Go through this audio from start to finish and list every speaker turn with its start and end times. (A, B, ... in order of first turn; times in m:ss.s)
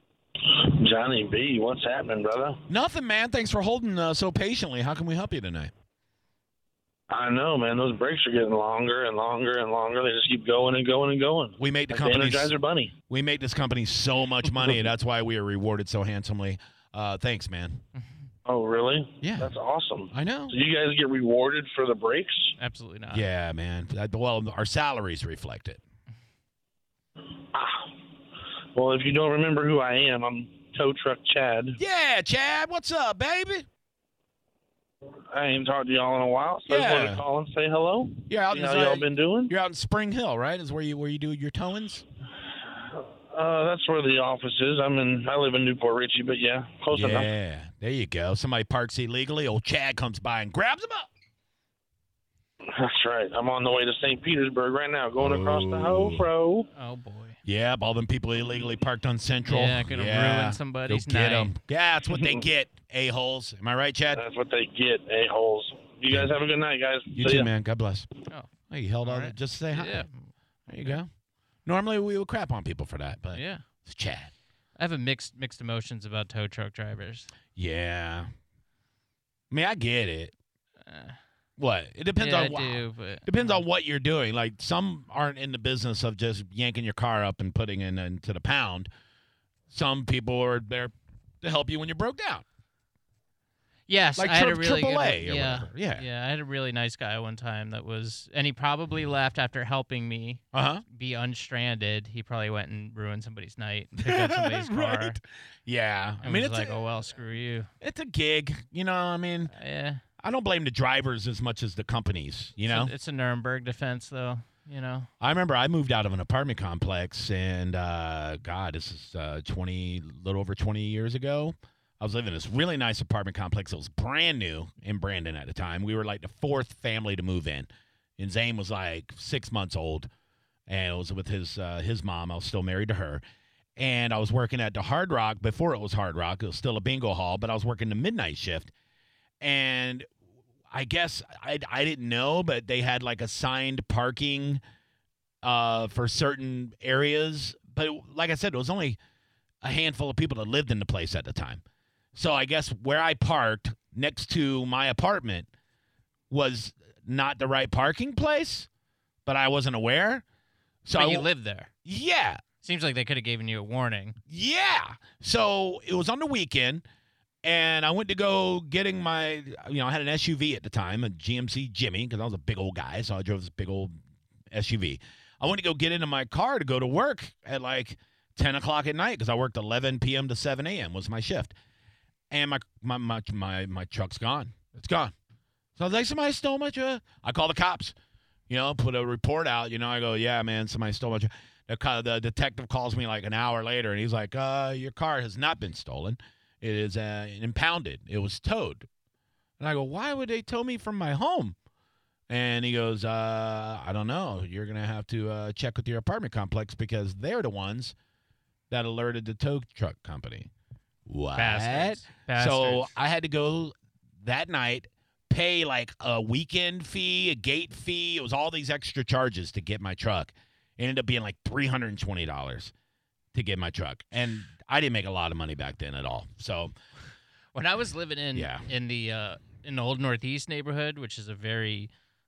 0:00.5-0:02.6 A
0:02.7-0:05.7 B
0:07.1-0:12.9 A
0:11.6-0:12.5 B
0:13.1-0:17.8 B
0:18.5-0:22.5 A
0:19.2-0:19.5 B
0:20.1-0:20.5 B
0:22.6-0:23.2 C
0:23.1-0:25.8 B
0:27.5-0:27.9 A
0:28.7-0:31.8 A
0:31.8-0:33.6 B
0:35.3-0:39.5 A
0:36.7-0:37.2 B
0:38.3-0:42.0 B
0:42.9-0:47.3 A
0:46.9-0:51.1 B
0:52.7-0:56.7 A
0:55.2-0:56.3 B
0:56.7-0:57.4 C
0:57.4-1:04.2 B
0:59.4-1:01.5 C
1:02.1-1:02.4 A
1:04.1-1:07.5 A
1:07.1-1:08.1 B
1:08.7-1:10.0 B
1:09.0-1:10.3 C
1:10.7-1:11.1 B
1:11.6-1:14.3 B
1:13.3-1:13.6 C
1:14.8-1:17.3 C
1:17.5-1:18.3 B
1:19.5-1:20.3 B
1:20.8-1:21.2 C
1:21.6-1:28.9 B
1:22.2-1:23.6 C
1:29.7-1:32.4 B
1:33.9-1:45.2 C
1:34.2-1:36.0 B
1:40.5-1:40.8 B
1:44.0-1:46.8 B
1:46.2-1:47.7 C
1:47.8-1:49.5 B
1:49.5-1:50.0 C
1:50.2-1:52.9 B
1:52.6-1:55.1 C
1:55.2-2:10.1 B
2:10.7-2:13.2 B
2:13.8-2:18.7 B
2:19.4-2:20.1 B
2:20.7-2:24.6 B
2:25.4-2:29.0 B
2:29.6-2:31.6 B
2:32.2-2:35.5 B
2:36.3-2:38.7 B
2:39.2-2:40.2 B
2:40.8-2:41.3 B
2:40.9-2:41.7 C
2:41.8-2:42.4 B
2:42.6-2:44.2 C
2:44.2-2:46.8 B
2:47.4-2:54.0 B
2:54.5-3:01.6 B
3:02.3-3:05.1 B
3:05.8-3:08.0 B
3:08.5-3:18.9 B
3:19.6-3:21.6 B
3:22.3-3:28.0 B
3:28.7-3:30.5 B
3:31.1-3:42.7 B
3:31.3-3:32.9 C
3:43.3-3:46.7 B
3:47.5-3:51.9 C
3:48.3-3:48.7 B